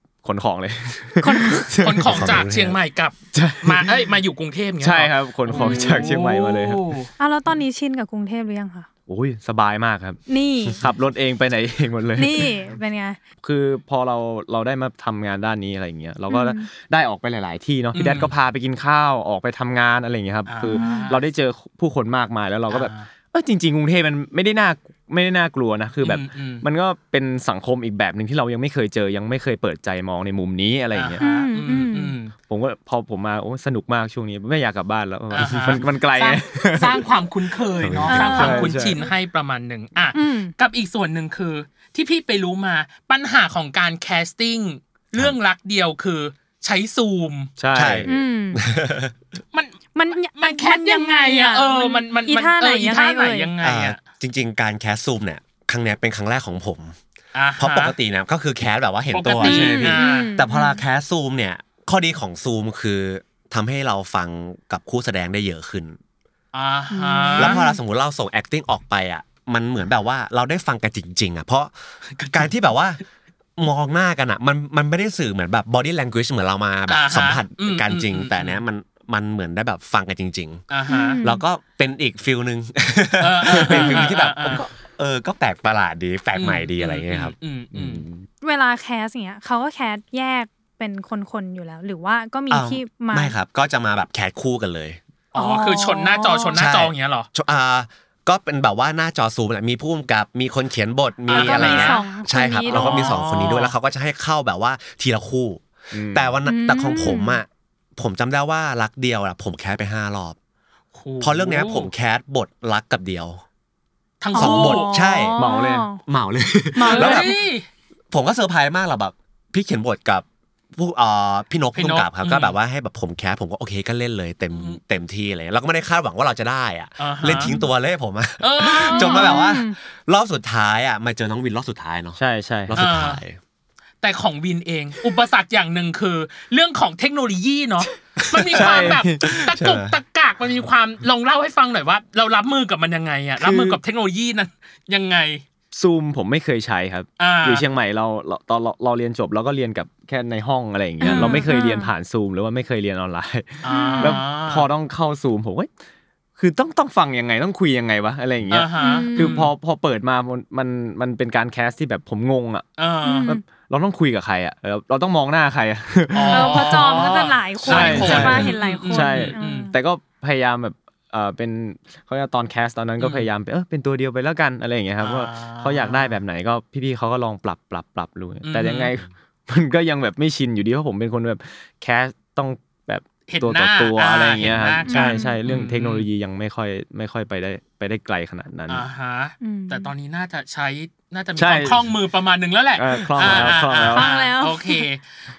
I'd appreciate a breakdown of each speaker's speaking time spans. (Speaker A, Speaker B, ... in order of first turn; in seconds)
Speaker A: 0.2-2.5, 3.3-4.0, 4.8-6.8, 9.1-10.2, 10.8-12.5, 13.4-31.2, 32.5-37.0, 38.0-39.0, 47.6-48.2, 59.6-59.9, 87.8-88.0, 105.9-106.4, 115.4-115.9, 132.2-132.8, 138.5-139.4, 143.4-143.8, 145.7-155.7, 156.4-162.7, 163.3-166.9, 167.7-188.8, 191.4-191.9, 192.8-194.1
Speaker B: 1.2-1.8, 5.5-6.2, 7.2-8.9, 10.3-10.8, 12.2-13.2, 16.3-16.7, 20.6-21.1, 31.2-32.2, 38.1-38.8, 40.1-40.5, 48.1-48.6, 50.0-53.5, 59.4-60.8, 66.9-67.8, 80.9-81.4, 88.4-93.4, 95.3-96.7, 101.3-103.2, 106.5-107.4, 114.3-116.0, 116.8-117.3, 128.9-129.8, 151.0-151.9, 153.7-154.2, 158.8-159.5, 163.0-163.4, 166.3-169.8, 184.9-185.5, 189.4-189.9, 193.2-194.9
Speaker C: 1.8-7.1, 17.9-18.3, 20.5-21.2, 22.7-23.1, 26.0-26.6, 30.9-32.3, 35.3-47.5, 49.5-54.0, 57.4-58.0, 59.1-60.4, 66.5-67.6, 72.2-72.5, 76.9-78.6, 80.7-81.2, 83.2-84.7, 86.3-88.0, 95.3-97.3, 101.3-102.0, 102.7-103.7, 110.9-111.9, 114.2-114.9, 116.8-117.7, 121.8-122.5, 124.5-124.8, 127.0-127.6, 128.4-129.4, 132.8-133.2, 134.0-145.4, 147.2-147.6, 151.1-151.4, 153.6-154.7, 158.5-159.5, 162.8-163.3, 166.1-169.7, 173.0-173.3, 175.0-176.2, 178.4-178.9, 183.3-186.1, 188.7-195.0
Speaker D: 2.1-2.8, 37.8-38.3, 47.7-49.1, 53.6-57.0, 57.6-66.0, 67.4-71.7, 72.3-73.0, 73.6-80.7, 81.2-87.3, 92.5-95.0, 96.5-110.4, 111.2-113.4, 114.3-115.4, 116.1-117.4, 118.1-133.4, 138.2-140.0